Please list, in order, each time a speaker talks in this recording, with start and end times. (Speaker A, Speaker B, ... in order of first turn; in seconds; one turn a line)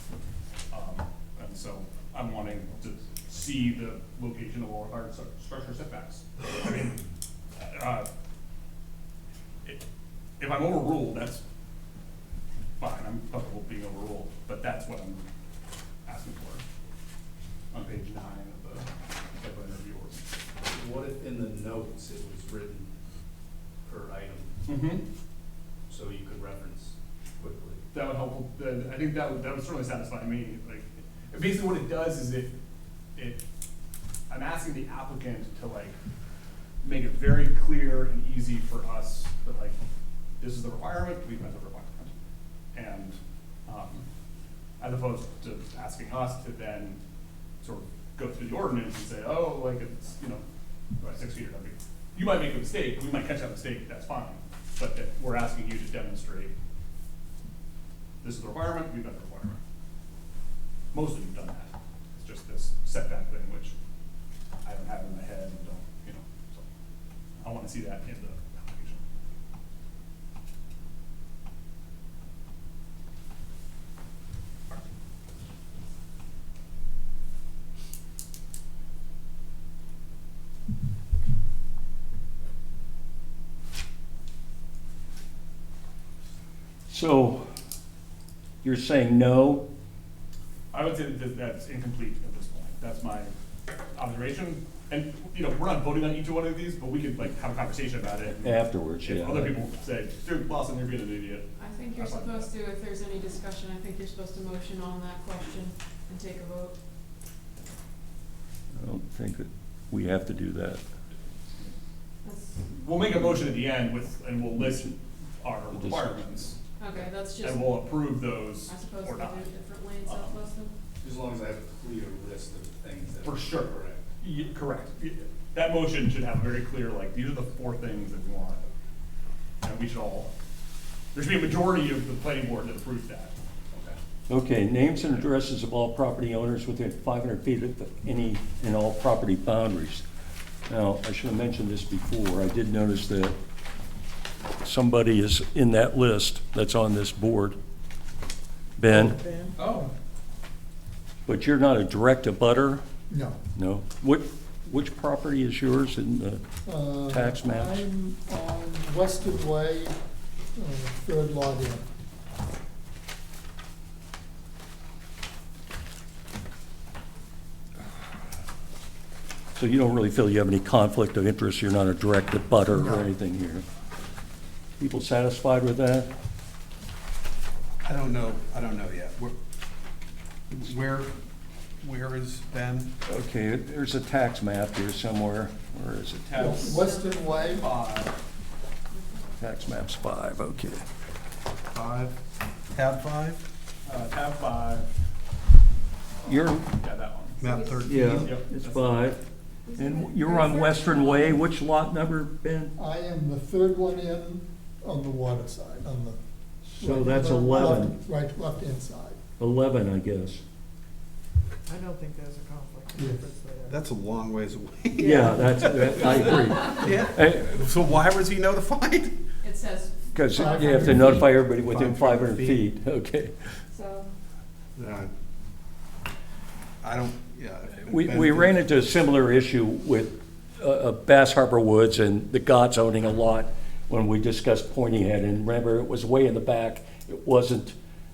Speaker A: 0.7-7.0
Speaker A: 7.6-8.1
Speaker A: 10.4-11.4
Speaker A: 12.8-15.2
Speaker A: 16.1-16.6
Speaker A: 17.7-20.2
Speaker B: 20.6-22.9
Speaker B: 23.8-24.5
Speaker A: 24.6-25.0
Speaker B: 25.9-27.8
Speaker A: 27.9-32.5
Speaker A: 33.1-33.4
Speaker A: 34.3-36.0
Speaker A: 36.8-39.8
Speaker A: 40.4-42.1
Speaker A: 42.7-44.0
Speaker A: 44.8-47.0
Speaker A: 47.6-50.4
Speaker A: 51.0-56.5
Speaker A: 58.2-59.6
Speaker A: 60.9-63.7
Speaker A: 64.6-66.6
Speaker A: 67.4-69.0
Speaker C: 86.9-87.4
Speaker C: 88.6-89.7
Speaker A: 90.7-93.3
Speaker A: 93.9-102.5
Speaker C: 98.4-99.5
Speaker D: 101.6-106.8
Speaker C: 108.7-110.8
Speaker D: 112.2-112.6
Speaker A: 112.8-116.5
Speaker C: 115.7-116.1
Speaker D: 116.8-117.7
Speaker A: 117.4-119.4
Speaker D: 118.7-120.7
Speaker A: 120.1-120.3
Speaker B: 121.0-124.0
Speaker A: 123.2-128.6
Speaker A: 129.6-130.3
Speaker A: 131.1-133.3
Speaker C: 134.3-140.0
Speaker C: 140.7-143.3
Speaker C: 144.6-147.6
Speaker C: 148.8-149.2
Speaker E: 148.9-149.6
Speaker F: 149.6-149.8
Speaker C: 151.2-152.8
Speaker G: 153.1-153.4
Speaker C: 153.5-156.4
Speaker G: 156.7-159.9
Speaker C: 156.9-157.8
Speaker G: 160.5-161.8
Speaker C: 169.5-173.6
Speaker G: 172.7-173.1
Speaker C: 174.8-176.1
Speaker F: 177.8-179.3
Speaker F: 180.5-181.1
Speaker F: 181.8-182.9
Speaker C: 183.1-186.2
Speaker A: 186.2-188.1
Speaker G: 186.3-187.7
Speaker D: 186.6-187.2
Speaker D: 188.9-189.3
Speaker C: 189.4-190.8
Speaker F: 191.7-192.2
Speaker F: 192.7-193.4
Speaker A: 193.8-194.9
Speaker C: 196.2-196.7
Speaker A: 196.6-197.5
Speaker F: 197.4-198.4
Speaker D: 197.4-197.9
Speaker C: 197.8-199.2
Speaker A: 198.1-198.9
Speaker D: 199.7-201.3
Speaker C: 199.8-202.7
Speaker G: 202.8-206.2
Speaker C: 206.7-208.0
Speaker G: 206.8-209.2
Speaker C: 209.4-210.4
Speaker E: 211.7-213.8
Speaker G: 212.9-213.2
Speaker F: 213.7-219.1
Speaker E: 215.0-216.7
Speaker C: 215.0-217.5
Speaker D: 219.4-221.3
Speaker C: 220.1-223.3
Speaker G: 220.3-221.2
Speaker F: 221.5-222.6
Speaker D: 223.7-224.1
Speaker F: 224.8-225.1
Speaker F: 226.8-228.6
Speaker C: 227.9-237.7